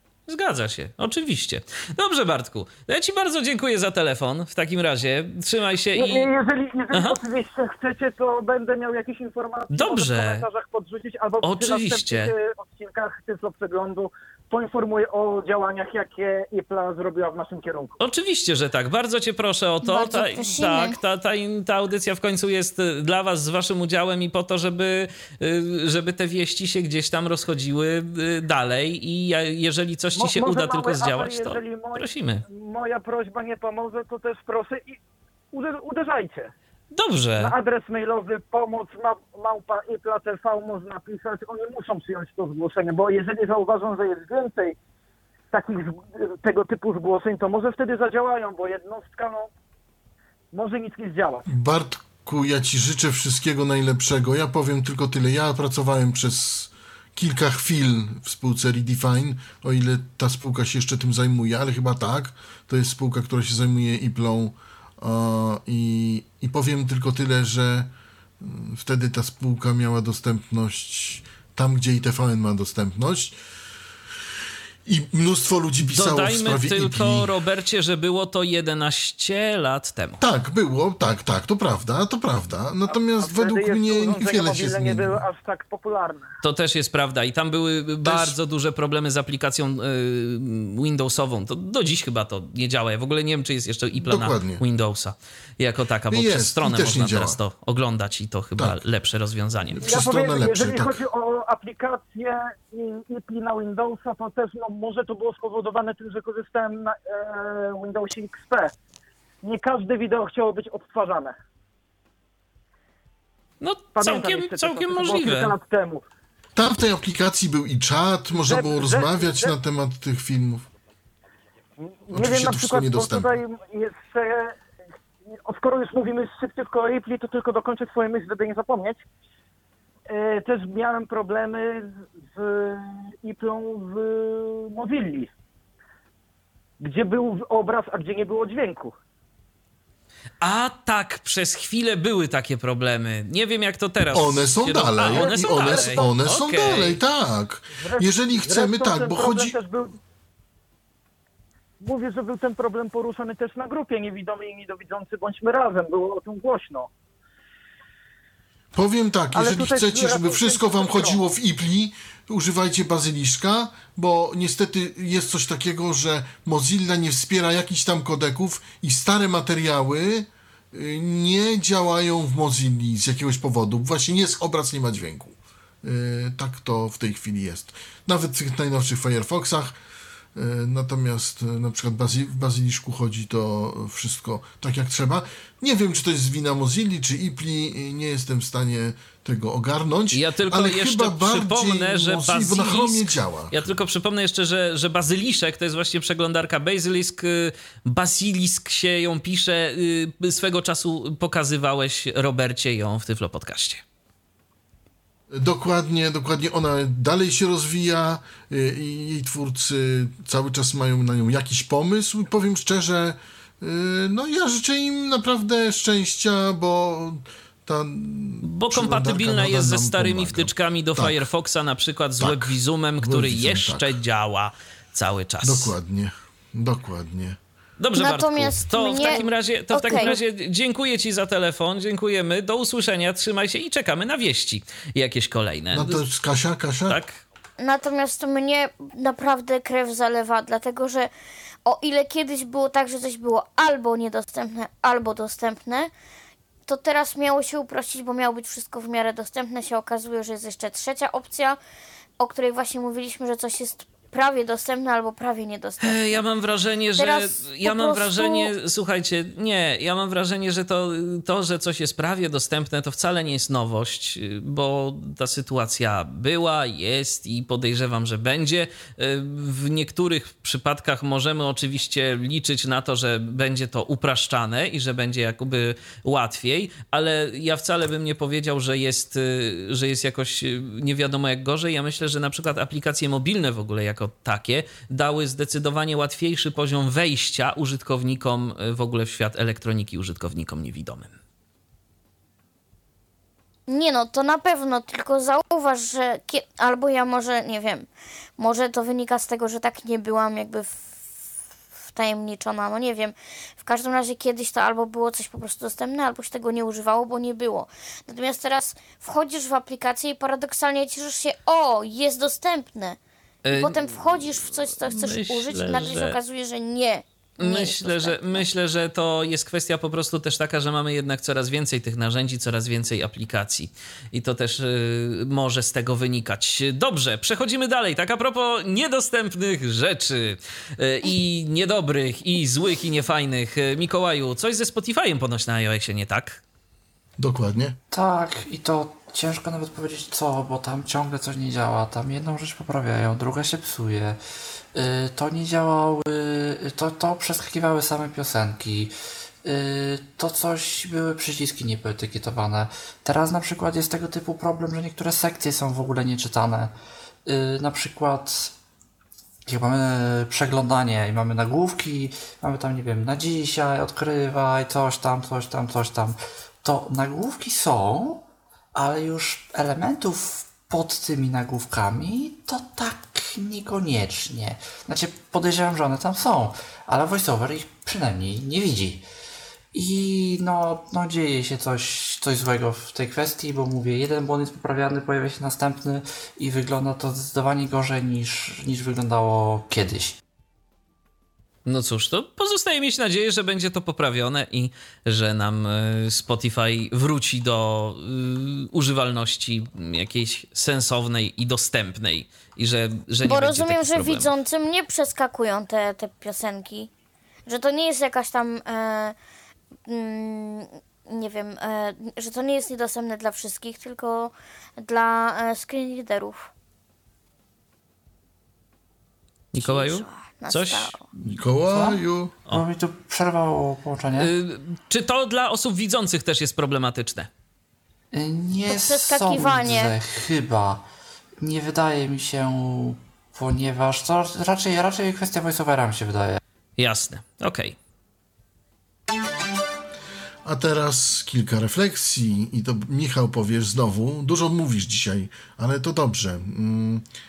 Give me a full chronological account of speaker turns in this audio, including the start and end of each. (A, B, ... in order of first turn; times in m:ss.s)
0:00.3-0:06.3 A
0:05.9-0:18.0 B
0:06.9-0:07.2 A
0:09.7-0:10.4 A
0:11.4-0:12.3 A
0:18.0-0:32.4 A
0:19.8-0:21.0 C
0:30.2-0:35.0 B
0:35.5-0:36.5 B
0:36.9-0:37.5 A
0:37.4-0:44.8 B
0:45.5-0:49.5 B
0:50.5-0:51.4 B
0:51.5-1:13.4 D
1:14.8-1:17.3 D
1:15.9-1:20.2 A
1:20.2-1:25.2 D
1:22.9-1:26.3 B
1:26.4-1:39.8 A
1:28.0-1:28.4 D
1:33.9-1:34.6 D
1:36.1-1:37.4 D
1:38.6-1:38.8 D
1:39.7-1:41.0 D
1:39.8-1:48.7 B
1:49.4-1:51.4 B
1:53.6-1:55.5 A
1:53.9-1:56.0 B
1:56.6-2:00.6 D
1:58.4-1:59.5 B
2:01.8-2:04.6 B
2:02.1-2:03.4 D
2:05.4-2:09.0 B
2:10.1-2:15.3 B
2:16.8-2:18.9 B
2:20.4-2:27.0 A
2:24.1-2:29.6 D
2:25.1-2:26.1 B
2:27.8-2:29.9 B
2:31.8-2:36.9 B
2:38.7-2:59.8 D
2:39.3-2:41.2 B
3:00.3-3:13.8 D
3:10.1-3:23.8 A
3:25.3-3:41.2 D
3:38.4-3:45.7 A
3:42.2-3:44.0 D
3:45.4-3:47.4 D
3:47.8-3:56.0 A
3:48.0-3:50.2 C
3:55.7-3:57.0 D
3:56.9-3:57.2 A
3:57.6-4:01.1 C
4:01.6-4:05.9 C
4:06.7-4:11.6 C
4:12.2-4:16.2 C
4:15.8-4:51.1 A
4:17.0-4:18.5 C
4:53.7-5:00.9 C
5:01.9-5:13.0 C
5:13.4-5:16.2 A
5:13.5-5:18.4 C
5:17.4-5:36.4 A
5:37.2-5:37.8 D
5:37.9-5:44.2 E
5:44.7-5:56.7 E
5:57.2-5:58.5 E
5:59.4-6:08.2 E
6:08.7-6:19.0 E
6:19.7-6:30.2 E
6:31.6-6:44.3 A
6:43.2-6:46.9 C
6:47.4-6:49.2 C
6:49.8-6:56.5 C
6:59.5-7:01.0 A
6:59.6-7:01.0 C
7:01.2-7:02.3 D
7:01.7-7:04.3 E
7:04.1-7:07.3 A
7:08.1-7:10.8 E
7:08.7-7:09.9 C
7:11.4-7:16.4 E
7:16.8-7:17.8 A
7:20.4-7:27.0 D